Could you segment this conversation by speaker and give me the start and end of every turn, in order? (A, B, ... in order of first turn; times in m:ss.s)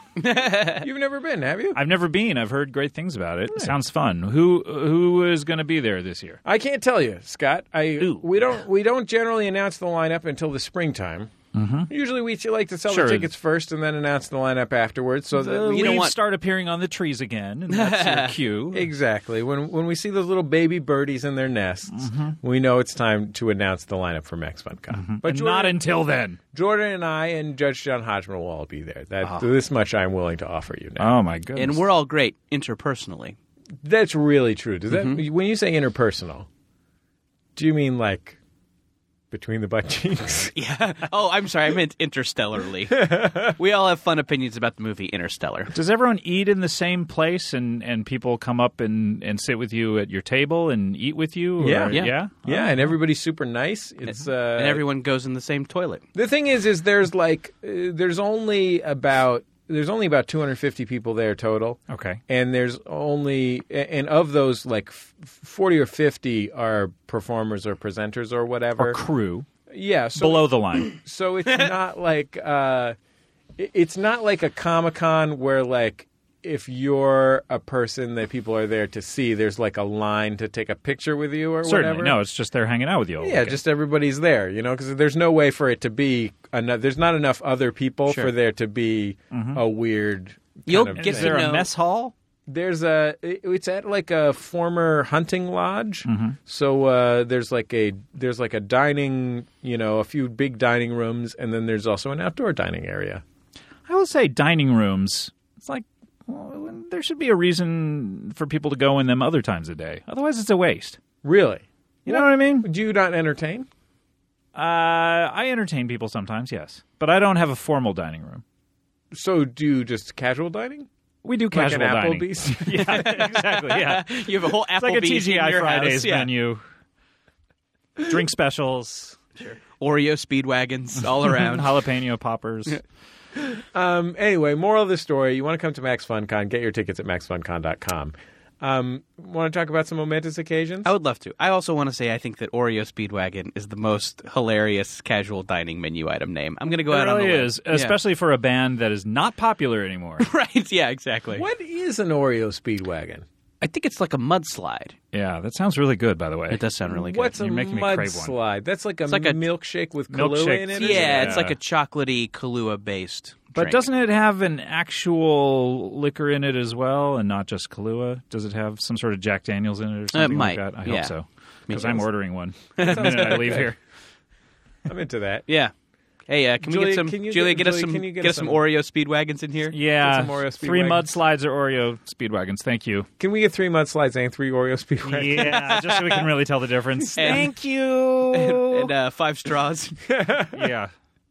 0:00.2-0:00.9 A
0:00.8-0:01.8 B
0:01.7-0:06.4 C
0:06.4-0:11.3 B
0:08.0-0:08.3 C
0:11.5-0:11.9 C
0:11.9-0:16.1 B
0:12.9-0:13.3 C
0:15.3-0:18.9 C
0:15.7-0:16.2 A
0:17.7-0:18.3 A
0:18.7-0:25.8 B
0:21.9-0:22.4 C
0:24.9-0:26.4 C
0:26.5-0:31.1 B
0:31.0-0:31.8 C
0:31.6-0:33.4 A
0:33.8-0:36.5 B
0:34.9-0:35.2 A
0:37.6-0:38.4 B
0:39.3-0:40.5 B
0:40.5-0:45.7 A
0:42.9-0:43.5 B
0:45.7-0:52.9 C
0:51.6-0:54.8 B
0:51.8-0:52.2 A
0:54.1-0:56.0 A
0:56.1-1:09.0 B
1:01.9-1:02.2 C
1:08.8-1:09.5 C
1:09.7-1:13.0 B
1:10.2-1:10.9 C
1:13.6-1:22.2 B
1:21.6-1:23.6 C
1:23.2-1:31.5 B
1:29.3-1:29.6 C
1:30.7-1:31.7 A
1:31.0-1:32.1 C
1:32.5-1:43.2 B
1:36.0-1:36.4 C
1:43.9-1:51.0 C
1:51.2-1:53.7 B
1:52.1-1:52.7 C
1:54.6-1:58.4 C
1:59.1-2:00.9 B
2:01.2-2:06.6 C
2:01.5-2:03.3 B
2:02.8-2:06.3 A
2:08.1-2:09.2 C
2:09.4-2:11.7 A
2:11.2-2:12.8 C
2:13.5-2:20.9 B
2:20.8-2:28.0 A
2:26.9-2:30.3 C
2:30.2-2:31.4 A
2:31.4-2:33.2 B
2:33.6-2:35.0 A
2:35.1-2:36.6 C
2:36.5-2:37.3 A
2:36.9-2:41.4 B
2:37.2-2:38.4 C
2:39.1-2:39.4 A
2:40.1-2:41.6 C
2:40.8-2:43.8 A
2:43.6-2:53.8 C
2:50.1-2:51.1 A
2:51.7-2:52.0 A
2:52.8-2:53.6 A
2:52.8-2:53.7 B
2:54.9-2:55.5 B
2:55.5-2:55.7 A
2:56.3-2:59.8 A
2:56.6-2:58.6 B
2:59.7-3:03.1 C
2:59.9-3:01.1 B
3:03.2-3:05.7 B
3:05.0-3:08.9 C
3:05.7-3:06.2 A
3:07.2-3:07.5 A
3:08.3-3:10.0 A
3:10.0-3:10.7 B
3:10.5-3:10.9 C